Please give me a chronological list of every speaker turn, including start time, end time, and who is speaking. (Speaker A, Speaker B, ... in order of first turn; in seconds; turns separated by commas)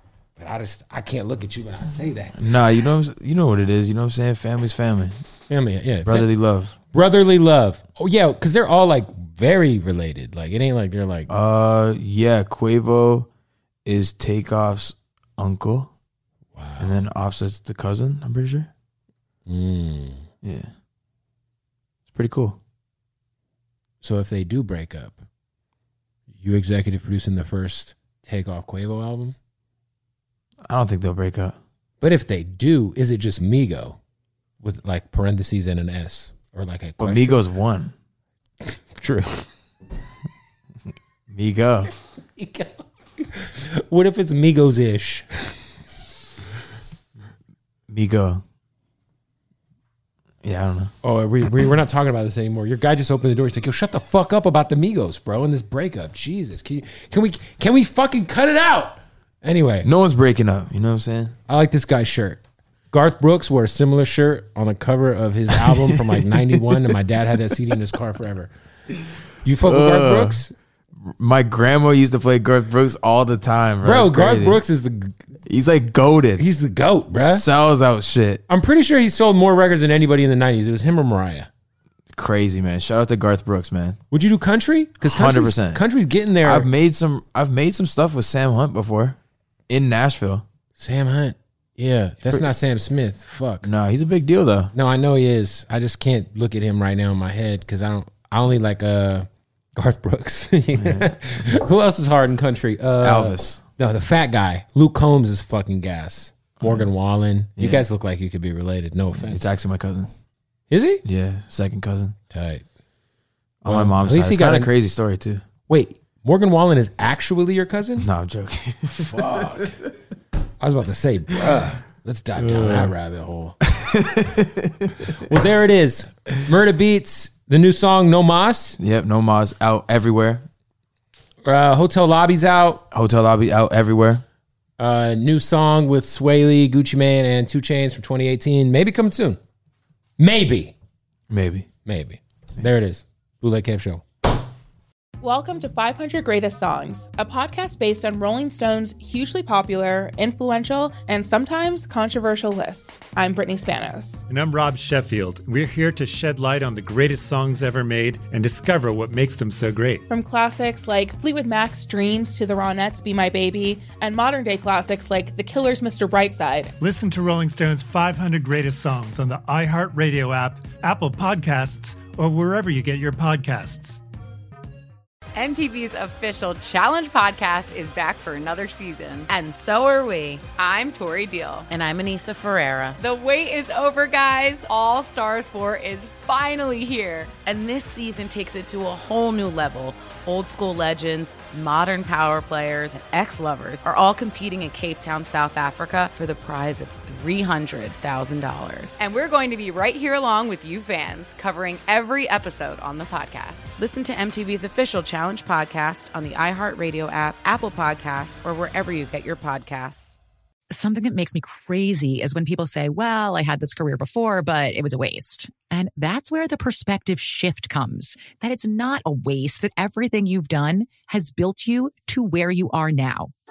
Speaker A: 0.4-2.4, Speaker B: 2.4-5.2, Speaker A: 5.5-6.3, Speaker B: 6.0-6.8, Speaker A: 6.9-11.3, Speaker B: 11.3-13.3, Speaker B: 13.9-15.9, Speaker A: 16.5-17.0, Speaker B: 16.8-18.7, Speaker A: 19.5-20.3, Speaker B: 20.4-20.7, Speaker B: 22.1-22.6, Speaker A: 24.0-25.2, Speaker A: 26.4-29.4, Speaker B: 30.7-31.6, Speaker A: 32.0-34.0, Speaker A: 34.6-37.4, Speaker B: 37.0-37.9, Speaker A: 38.6-39.5, Speaker B: 41.3-41.9, Speaker A: 42.4-45.6, Speaker B: 47.9-48.4, Speaker B: 50.4-50.9, Speaker A: 51.0-59.9, Speaker B: 59.8-61.4, Speaker A: 61.5-68.5, Speaker B: 65.5-66.8, Speaker A: 69.4-70.5, Speaker B: 69.6-70.4, Speaker B: 71.0-74.6, Speaker A: 73.8-75.2, Speaker B: 75.5-76.5, Speaker A: 76.4-77.5, Speaker B: 77.2-78.4, Speaker A: 78.5-81.5, Speaker B: 82.1-84.0, Speaker A: 84.1-86.7, Speaker B: 85.0-85.8, Speaker B: 86.4-89.2, Speaker B: 89.7-90.5, Speaker A: 90.8-93.7, Speaker B: 93.6-94.7, Speaker A: 94.7-109.5, Speaker B: 100.8-101.5, Speaker B: 103.0-103.6, Speaker B: 106.6-106.9, Speaker B: 107.6-107.8, Speaker B: 109.2-110.1, Speaker A: 110.7-111.0, Speaker B: 111.0-112.2, Speaker A: 112.3-112.7, Speaker B: 113.6-115.4, Speaker A: 113.7-114.7, Speaker A: 115.7-118.1, Speaker B: 118.0-119.8, Speaker A: 119.0-119.8, Speaker A: 120.6-123.6, Speaker B: 122.4-122.9, Speaker B: 123.6-125.2, Speaker A: 125.2-128.8, Speaker B: 128.8-130.5, Speaker A: 131.4-132.8, Speaker B: 132.9-134.2, Speaker A: 134.8-139.4, Speaker A: 140.2-140.8, Speaker B: 141.3-141.7, Speaker A: 141.8-144.0, Speaker C: 145.2-154.2, Speaker D: 154.3-160.0, Speaker C: 160.1-166.8, Speaker D: 166.8-174.0, Speaker E: 175.3-179.3, Speaker F: 179.3-180.4, Speaker E: 180.6-181.7, Speaker F: 181.7-183.0, Speaker E: 183.0-187.3, Speaker F: 187.5-199.0, Speaker E: 199.0-203.8, Speaker F: 203.8-210.2, Speaker G: 210.7-223.3